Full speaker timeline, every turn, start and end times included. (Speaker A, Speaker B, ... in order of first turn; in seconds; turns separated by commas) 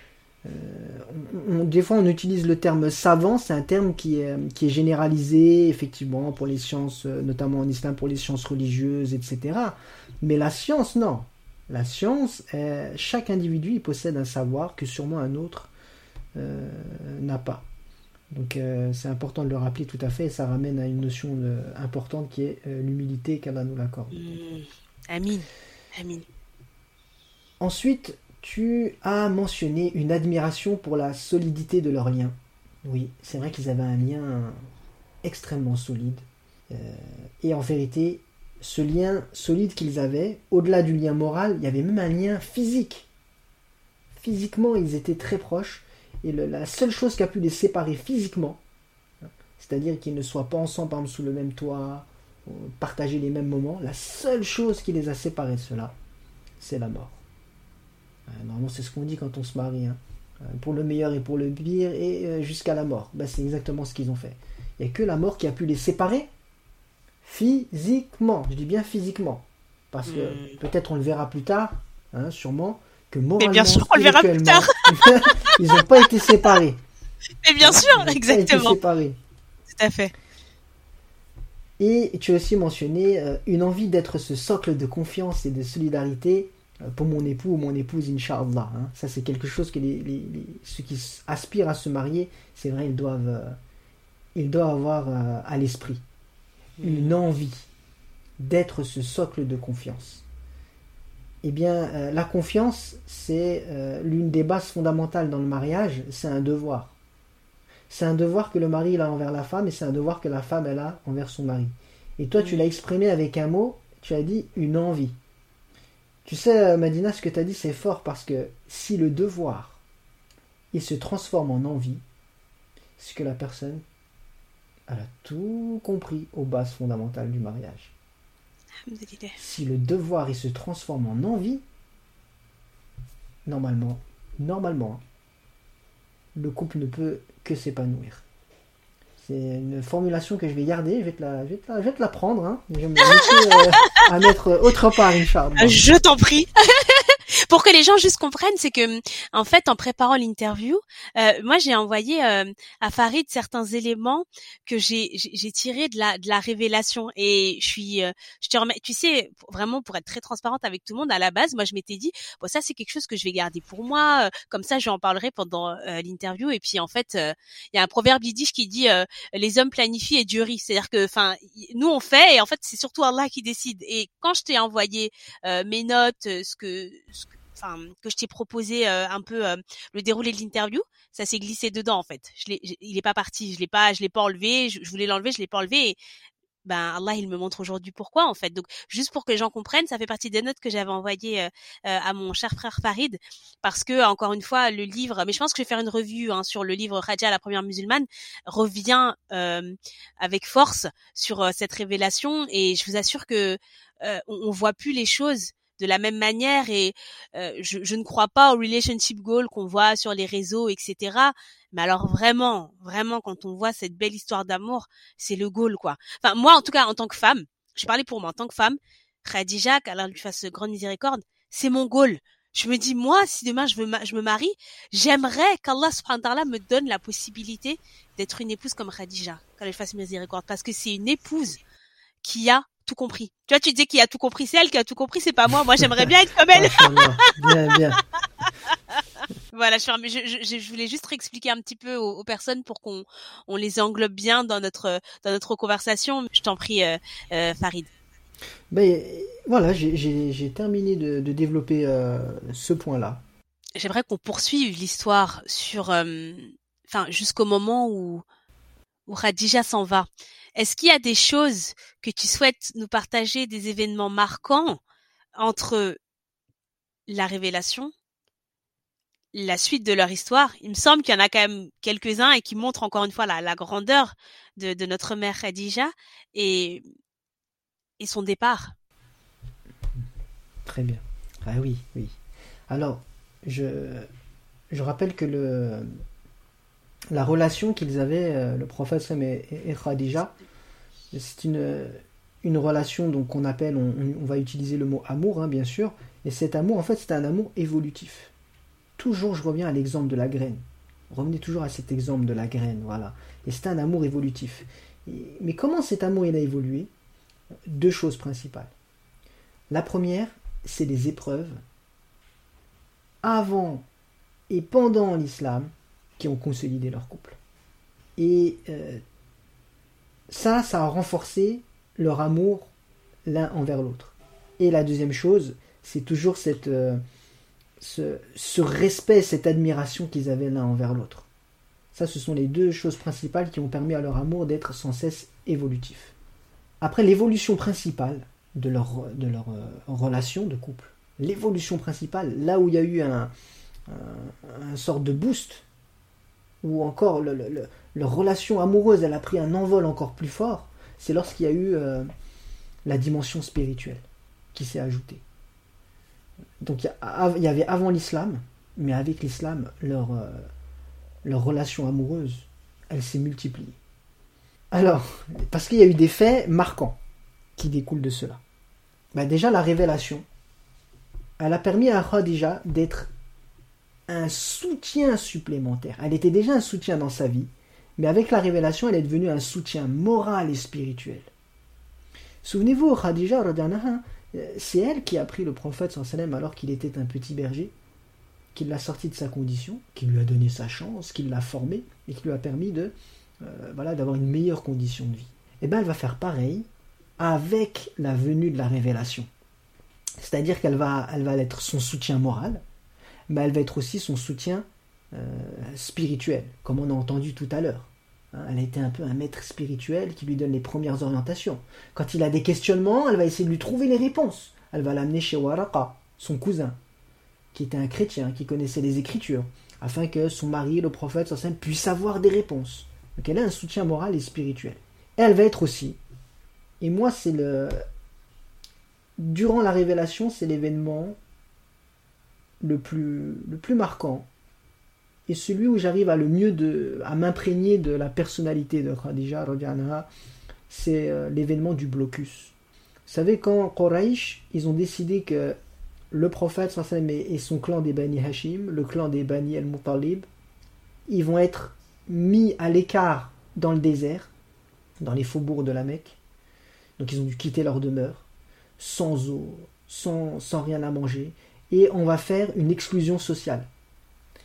Speaker A: 0.4-15.7, Speaker A: 16.3-17.7, Speaker A: 18.3-24.1, Speaker B: 24.1-26.2, Speaker A: 27.6-34.7, Speaker A: 35.2-43.1, Speaker A: 44.1-48.6, Speaker A: 49.6-55.9, Speaker A: 56.6-57.2, Speaker A: 58.2-66.3, Speaker A: 67.2-76.8, Speaker B: 70.0-70.6, Speaker B: 73.4-75.5, Speaker B: 77.4-78.8, Speaker A: 77.6-79.2, Speaker B: 79.7-80.1, Speaker A: 81.8-93.6, Speaker A: 94.3-96.0, Speaker B: 96.8-97.2, Speaker A: 96.8-97.7, Speaker A: 98.4-100.2, Speaker A: 101.4-106.9, Speaker A: 107.9-115.2, Speaker B: 112.4-112.6, Speaker A: 116.2-119.8, Speaker A: 120.7-122.0, Speaker A: 123.0-123.8, Speaker A: 124.9-127.9, Speaker B: 128.8-129.4, Speaker A: 129.4-131.6, Speaker A: 133.4-135.0, Speaker A: 136.3-138.2, Speaker A: 139.2-145.8, Speaker B: 143.2-144.0, Speaker B: 145.6-186.0, Speaker B: 186.6-231.6, Speaker B: 232.2-237.5, Speaker A: 236.5-238.0, Speaker B: 239.5-247.9, Speaker A: 248.7-253.2, Speaker B: 253.8-258.2, Speaker B: 259.1-264.8, Speaker B: 265.4-266.0, Speaker B: 267.1-267.9, Speaker B: 269.3-276.8, Speaker B: 278.0-278.7, Speaker A: 280.6-282.2, Speaker A: 282.7-284.1, Speaker A: 284.7-286.0, Speaker A: 287.1-290.3, Speaker A: 291.1-298.3, Speaker A: 299.0-306.9, Speaker A: 307.7-308.7, Speaker A: 309.7-311.6, Speaker A: 313.2-313.8, Speaker A: 314.5-317.4, Speaker A: 318.2-319.0, Speaker A: 320.3-322.7, Speaker A: 323.2-327.0, Speaker A: 327.8-331.3, Speaker A: 331.9-336.1, Speaker A: 336.8-343.3, Speaker A: 343.9-345.6, Speaker A: 346.6-352.1, Speaker A: 352.8-355.2, Speaker A: 356.6-360.5, Speaker A: 361.2-363.8, Speaker A: 364.7-367.0, Speaker A: 367.6-368.4, Speaker A: 369.1-370.2, Speaker A: 371.4-373.1, Speaker A: 374.1-381.3, Speaker A: 382.4-387.7, Speaker A: 388.5-396.7, Speaker A: 397.2-399.3, Speaker A: 400.2-402.6, Speaker A: 403.3-416.8, Speaker A: 417.5-426.0, Speaker A: 426.8-427.8, Speaker A: 429.2-431.2, Speaker A: 432.6-434.3, Speaker A: 435.3-440.1, Speaker A: 440.7-442.5, Speaker A: 443.1-445.6, Speaker A: 446.1-450.2, Speaker A: 451.1-454.3, Speaker A: 455.0-456.2, Speaker A: 457.0-458.2, Speaker A: 458.8-463.7